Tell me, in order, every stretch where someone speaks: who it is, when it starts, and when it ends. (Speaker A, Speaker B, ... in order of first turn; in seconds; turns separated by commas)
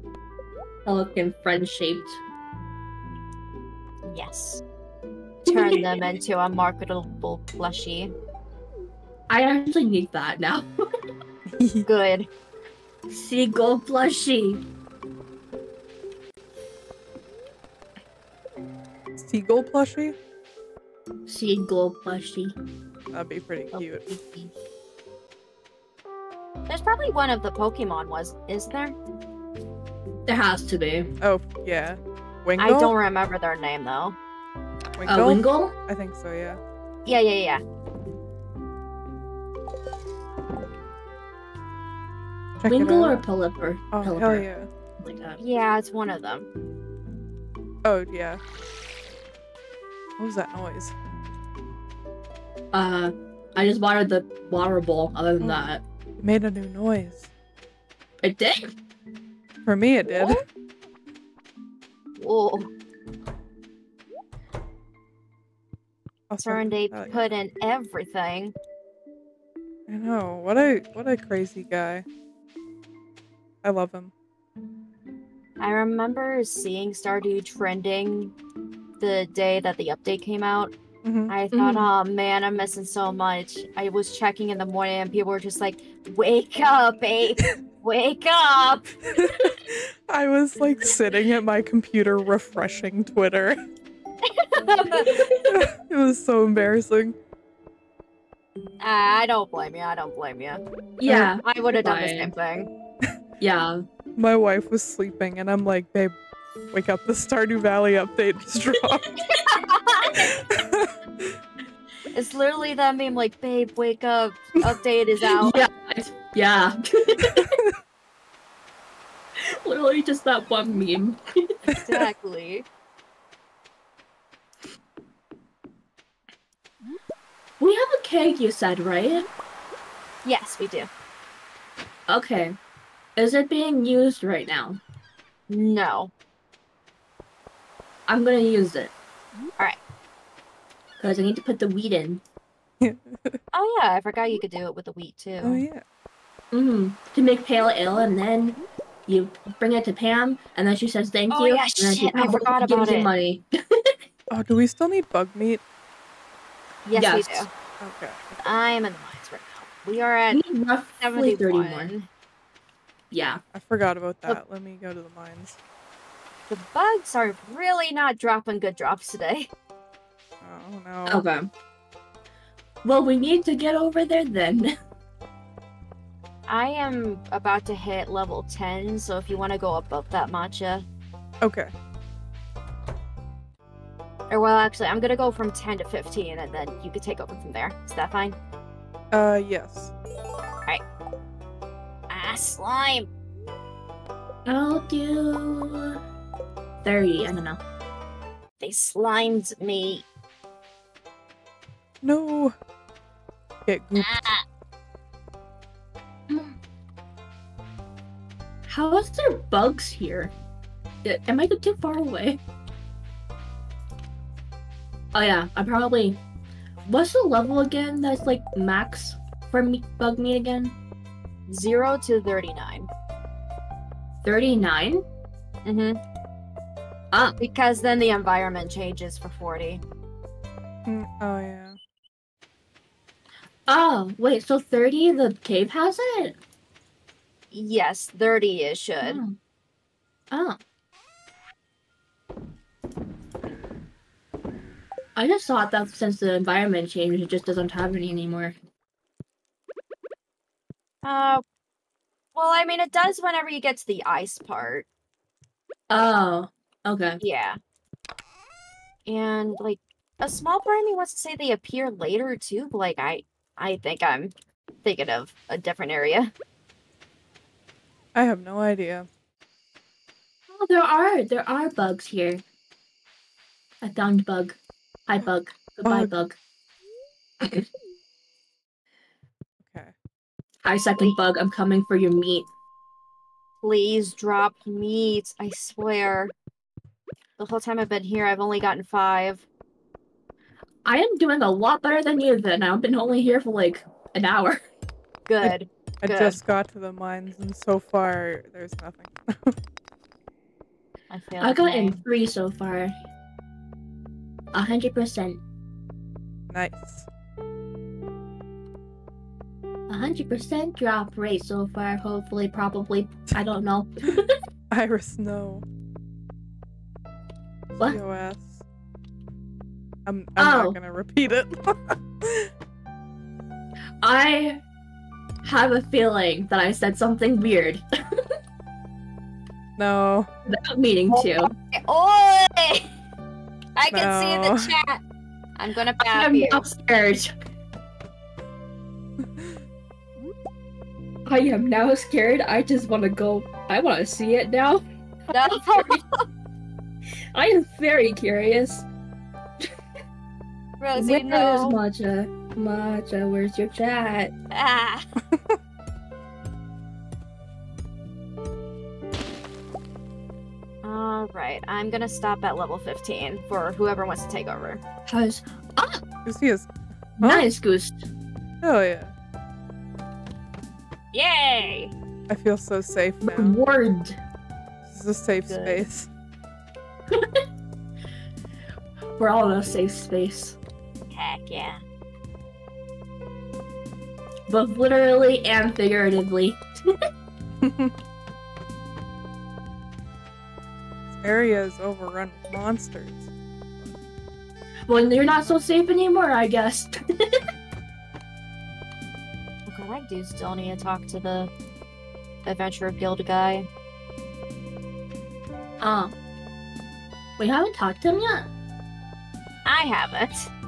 Speaker A: 0.8-2.2, Speaker B: 4.1-4.6, Speaker A: 5.5-5.9, Speaker B: 5.5-8.1, Speaker A: 9.3-10.7, Speaker C: 11.5-11.9, Speaker B: 11.8-12.3, Speaker A: 13.1-14.6, Speaker C: 19.2-20.1, Speaker A: 21.3-22.5, Speaker C: 23.1-24.0, Speaker B: 23.7-24.5, Speaker B: 26.7-28.9, Speaker A: 30.3-31.1, Speaker C: 31.2-32.9, Speaker B: 32.6-34.2, Speaker C: 35.0-36.6, Speaker A: 35.0-35.7, Speaker B: 37.0-37.6, Speaker C: 42.6-43.2, Speaker A: 42.6-44.5, Speaker C: 43.9-44.7, Speaker A: 45.0-45.4, Speaker B: 45.4-46.5, Speaker C: 47.8-48.4, Speaker C: 50.2-50.9, Speaker A: 52.7-55.8, Speaker C: 56.2-57.3, Speaker A: 58.2-58.7, Speaker C: 59.6-60.4, Speaker B: 60.0-60.4, Speaker B: 62.2-62.7, Speaker C: 66.3-67.3, Speaker B: 66.4-68.5, Speaker C: 69.9-72.0, Speaker C: 73.6-74.1, Speaker B: 75.6-78.3, Speaker B: 79.0-80.7, Speaker C: 81.0-81.3, Speaker B: 81.3-89.0, Speaker A: 81.5-81.9, Speaker C: 89.1-93.6, Speaker B: 94.7-95.2, Speaker A: 94.7-95.5, Speaker C: 95.5-97.2, Speaker B: 98.8-102.7, Speaker A: 101.0-102.3, Speaker A: 103.4-103.8, Speaker C: 104.2-106.1, Speaker C: 106.7-109.1, Speaker B: 109.3-110.3, Speaker C: 110.2-111.4, Speaker B: 112.1-115.6, Speaker A: 115.4-117.6, Speaker C: 117.3-117.7, Speaker A: 119.4-121.5, Speaker B: 121.7-122.6, Speaker C: 121.7-122.1, Speaker A: 127.6-129.3, Speaker B: 130.2-130.9, Speaker A: 132.1-132.6, Speaker A: 133.2-134.8, Speaker B: 135.5-136.1, Speaker A: 138.1-138.9, Speaker A: 141.0-142.2, Speaker C: 142.8-143.4, Speaker B: 143.5-145.6, Speaker C: 145.4-145.8, Speaker A: 146.5-153.9, Speaker B: 151.3-153.1, Speaker C: 154.3-155.6, Speaker B: 156.8-157.5, Speaker A: 156.9-157.5, Speaker C: 157.8-158.4, Speaker B: 158.4-160.4, Speaker A: 160.3-161.9, Speaker B: 161.0-162.1, Speaker A: 163.1-163.4, Speaker C: 163.5-165.6, Speaker B: 166.5-169.5, Speaker C: 170.4-171.2, Speaker A: 171.1-171.5, Speaker A: 172.8-174.7, Speaker B: 176.5-180.8, Speaker C: 181.4-181.7, Speaker B: 184.3-188.4, Speaker C: 189.1-189.9, Speaker B: 192.1-193.1, Speaker A: 194.4-196.0, Speaker A: 196.8-197.6, Speaker B: 198.6-200.0, Speaker C: 202.0-202.5, Speaker C: 203.7-204.3, Speaker B: 203.9-204.4, Speaker A: 206.3-206.6, Speaker A: 208.7-210.3, Speaker A: 211.0-212.4, Speaker A: 215.1-216.2, Speaker A: 216.8-220.8, Speaker B: 221.5-222.9, Speaker A: 224.2-225.0, Speaker B: 225.6-226.0, Speaker B: 227.4-229.8, Speaker C: 230.9-231.8, Speaker A: 233.7-236.3, Speaker B: 237.5-239.2, Speaker A: 239.0-239.4, Speaker A: 240.3-240.6, Speaker A: 245.2-248.5, Speaker B: 251.0-251.4, Speaker B: 252.3-254.9, Speaker A: 255.9-257.2, Speaker B: 257.2-257.6, Speaker B: 259.1-266.3, Speaker C: 268.1-269.1, Speaker A: 270.5-272.4, Speaker A: 273.8-276.4, Speaker C: 275.8-276.1, Speaker A: 277.4-277.6, Speaker C: 279.6-279.9, Speaker A: 280.6-282.5, Speaker B: 283.6-286.3, Speaker B: 287.4-289.4, Speaker A: 290.9-294.6, Speaker B: 295.3-296.4, Speaker C: 295.4-299.6, Speaker B: 301.1-302.0, Speaker A: 301.4-302.9, Speaker A: 304.5-305.4, Speaker C: 306.5-307.1, Speaker A: 309.9-314.4, Speaker C: 314.7-315.6, Speaker C: 317.7-318.6, Speaker C: 320.1-322.5, Speaker A: 320.4-320.8, Speaker A: 324.0-324.6, Speaker A: 325.4-328.3, Speaker C: 329.8-330.3, Speaker A: 330.4-331.5, Speaker B: 331.1-332.9, Speaker B: 333.7-335.0, Speaker C: 333.9-334.7, Speaker B: 335.6-336.7, Speaker A: 336.0-337.3, Speaker C: 339.2-339.6, Speaker A: 341.2-346.0, Speaker B: 345.3-346.2, Speaker A: 347.3-348.9, Speaker B: 350.8-351.8, Speaker A: 350.9-354.3, Speaker B: 354.5-355.1, Speaker C: 355.3-355.6, Speaker B: 360.8-364.8, Speaker A: 365.1-366.0, Speaker C: 366.2-367.5, Speaker A: 367.2-368.0, Speaker C: 368.6-369.1, Speaker B: 371.1-371.9, Speaker C: 372.3-373.6, Speaker A: 373.2-374.2, Speaker C: 374.9-376.1, Speaker B: 375.5-375.8, Speaker A: 377.1-377.4, Speaker A: 379.2-380.6, Speaker B: 381.1-381.8, Speaker A: 384.5-387.0, Speaker C: 387.6-387.9, Speaker C: 391.1-393.3, Speaker A: 394.9-397.4, Speaker B: 399.7-401.5, Speaker B: 402.4-403.7, Speaker A: 405.8-406.1, Speaker A: 407.4-408.5, Speaker B: 409.6-410.5